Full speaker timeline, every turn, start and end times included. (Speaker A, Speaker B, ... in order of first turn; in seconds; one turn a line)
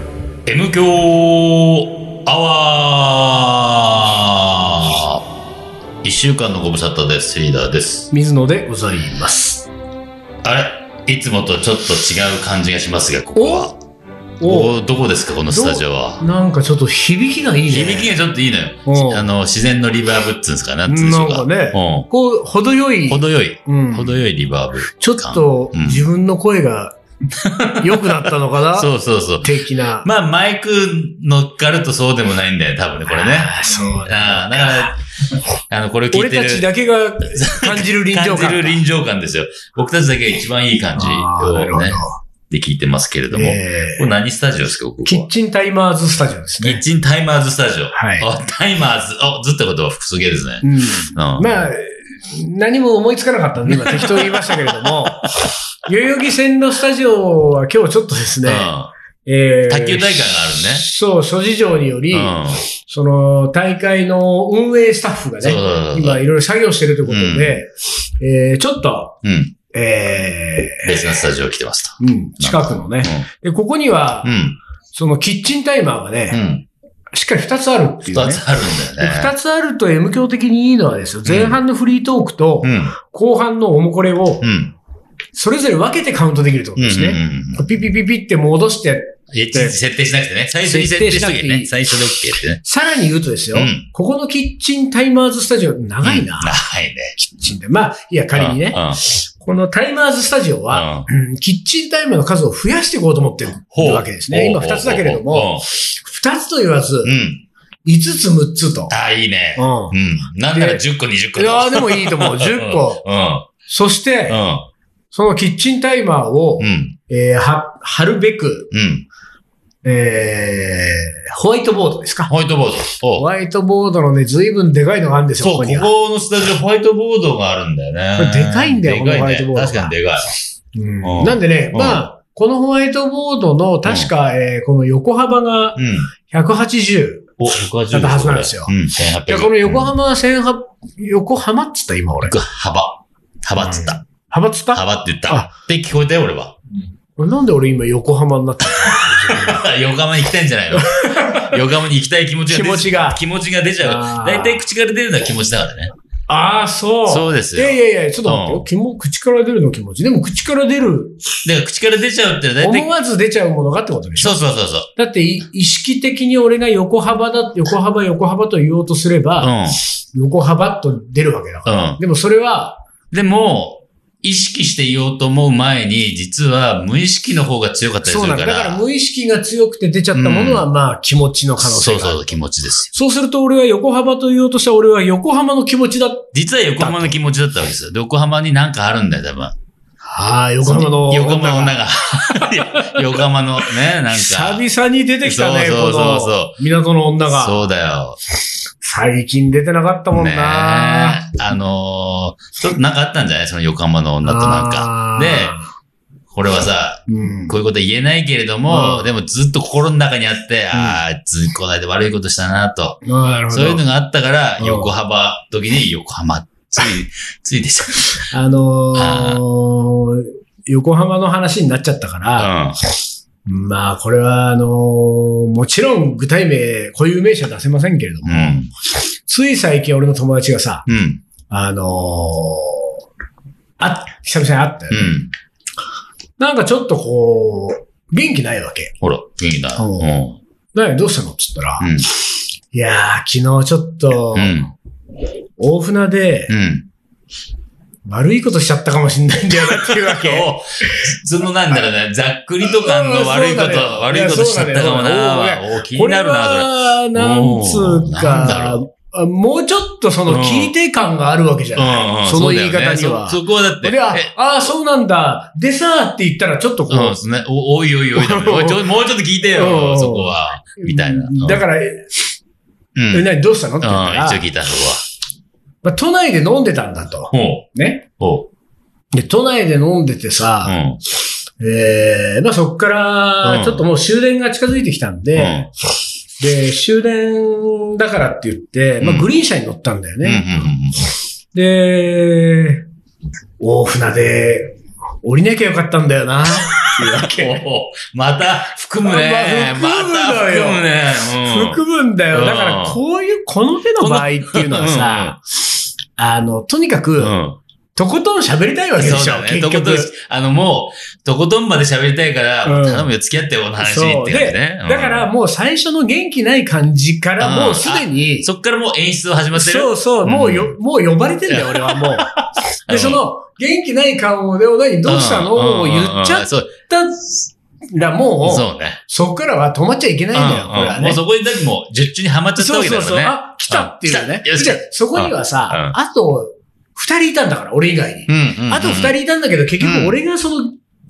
Speaker A: 0.5-5.2
Speaker A: 6.0-8.1
Speaker B: 8.1-9.7
Speaker A: 10.4-13.8
Speaker B: 13.4-13.7
Speaker B: 14.4-14.8
Speaker A: 14.4-16.2
Speaker B: 15.5-18.1
Speaker A: 17.7-22.1
Speaker B: 18.9-19.3
Speaker B: 20.9-24.2
Speaker A: 23.1-26.0
Speaker B: 24.9-27.0
Speaker A: 27.4-35.0
Speaker B: 27.8-28.9
Speaker B: 29.4-30.1
Speaker B: 33.1-34.9
Speaker A: 35.7-36.7
Speaker B: 36.1-38.8
Speaker A: 37.3-45.3
Speaker B: 41.0-42.2
Speaker B: 43.3-44.1
Speaker B: 45.0-46.8
Speaker A: 46.6-51.6
Speaker B: 47.9-48.3
Speaker B: 50.6-58.7
Speaker A: 53.7-55.0
Speaker A: 58.5-58.9
Speaker B: 59.2-69.2
Speaker A: 59.7-60.8
Speaker A: 62.1-62.7
Speaker A: 65.4-66.2
Speaker A: 67.1-67.6
Speaker A: 69.2-69.5
Speaker B: 69.7-71.0
Speaker A: 70.8-73.3
Speaker B: 72.0-74.3
Speaker A: 74.2-74.6
Speaker B: 74.9-76.4
Speaker A: 76.3-76.7
Speaker B: 77.1-78.4
Speaker A: 78.1-79.3
Speaker B: 79.0-84.5
Speaker A: 81.2-81.6
Speaker A: 82.6-83.0
Speaker A: 84.4-84.7
Speaker B: 85.3-89.8
Speaker A: 86.8-87.7
Speaker A: 89.3-92.6
Speaker B: 90.7-91.7
Speaker B: 92.6-96.6
Speaker A: 93.5-93.9
Speaker A: 96.0-97.1
Speaker B: 97.2-107.1
Speaker A: 98.3-99.0
Speaker A: 100.7-101.1
Speaker A: 103.7-105.7
Speaker A: 107.0-107.4
Speaker B: 107.8-108.9
Speaker A: 108.9-113.5
Speaker B: 109.6-110.0
Speaker B: 110.5-110.8
Speaker B: 111.3-113.0
Speaker B: 113.7-114.4
Speaker A: 114.3-114.7
Speaker B: 115.1-118.7
Speaker A: 116.6-117.0
Speaker A: 118.7-119.1
Speaker B: 119.8-122.3
Speaker A: 122.3-123.3
Speaker B: 123.2-125.9
Speaker A: 125.4-130.3
Speaker B: 128.2-129.9
Speaker B: 130.8-137.4
Speaker A: 131.0-132.0
Speaker A: 135.8-136.1
Speaker A: 137.4-139.9
Speaker B: 137.9-138.8
Speaker B: 139.3-142.4
Speaker A: 142.2-144.0
Speaker B: 143.6-145.5
Speaker A: 144.7-146.6
Speaker B: 147.2-149.7
Speaker A: 148.7-155.9
Speaker B: 150.8-151.6
Speaker B: 152.5-153.2
Speaker B: 153.8-154.7
Speaker B: 156.3-161.2
Speaker A: 157.1-158.7
Speaker A: 161.4-162.9
Speaker B: 162.6-164.4
Speaker A: 164.2-164.9
Speaker B: 165.0-169.5
Speaker A: 169.4-169.8
Speaker B: 170.1-172.8
Speaker A: 171.7-172.0
Speaker A: 173.1-178.8
Speaker B: 178.1-182.3
Speaker A: 180.1-180.7
Speaker A: 181.6-182.9
Speaker B: 182.9-187.2
Speaker A: 186.3-189.6
Speaker B: 190.1-193.0
Speaker A: 190.6-194.6
Speaker B: 194.1-197.7
Speaker A: 195.2-196.6
Speaker A: 197.3-198.2
Speaker B: 198.8-201.2
Speaker A: 200.1-205.6
Speaker B: 204.2-205.7
Speaker A: 206.3-218.2
Speaker B: 207.1-207.6
Speaker B: 208.7-209.1
Speaker B: 210.7-211.0
Speaker B: 213.1-213.8
Speaker B: 214.6-214.9
Speaker B: 218.3-222.6
Speaker A: 218.9-219.4
Speaker A: 222.4-222.8
Speaker B: 223.5-228.6
Speaker A: 228.3-228.7
Speaker B: 229.3-230.9
Speaker A: 230.9-231.2
Speaker B: 231.5-232.9
Speaker B: 233.8-235.2
Speaker A: 234.9-235.3
Speaker B: 236.4-238.9
Speaker A: 239.0-240.4
Speaker B: 239.8-240.1
Speaker B: 240.7-241.9
Speaker A: 241.8-242.1
Speaker B: 242.7-244.7
Speaker A: 244.3-244.7
Speaker B: 245.6-246.5
Speaker A: 246.5-246.9
Speaker B: 248.1-251.0
Speaker A: 249.7-258.8
Speaker B: 252.7-267.2
Speaker A: 260.3-260.7
Speaker A: 261.8-264.3
Speaker A: 266.9-271.6
Speaker B: 268.2-268.8
Speaker B: 269.5-272.2
Speaker A: 272.9-275.0
Speaker B: 273.1-274.4
Speaker B: 275.8-278.1
Speaker A: 277.3-277.7
Speaker A: 278.2-278.5
Speaker B: 279.1-280.8
Speaker A: 280.6-281.0
Speaker B: 281.6-285.7
Speaker A: 283.4-283.9
Speaker A: 285.4-285.7
Speaker B: 286.4-290.6
Speaker A: 289.0-289.3
Speaker A: 290.2-291.0
Speaker B: 291.5-292.9
Speaker B: 293.6-297.6
Speaker A: 296.6-301.8
Speaker B: 299.0-305.4
Speaker A: 302.3-303.0
Speaker A: 304.0-305.4
Speaker B: 306.2-307.4
Speaker A: 307.2-307.6
Speaker B: 307.9-310.1
Speaker A: 309.0-315.3
Speaker B: 312.6-313.1
Speaker B: 313.8-318.5
Speaker A: 317.4-320.8
Speaker B: 319.5-322.3
Speaker A: 321.5-323.2
Speaker B: 322.9-327.2
Speaker A: 325.1-326.9
Speaker B: 327.9-331.2
Speaker A: 328.4-329.0
Speaker A: 330.3-336.0
Speaker B: 332.6-340.8
Speaker A: 338.3-339.1
Speaker A: 339.8-340.2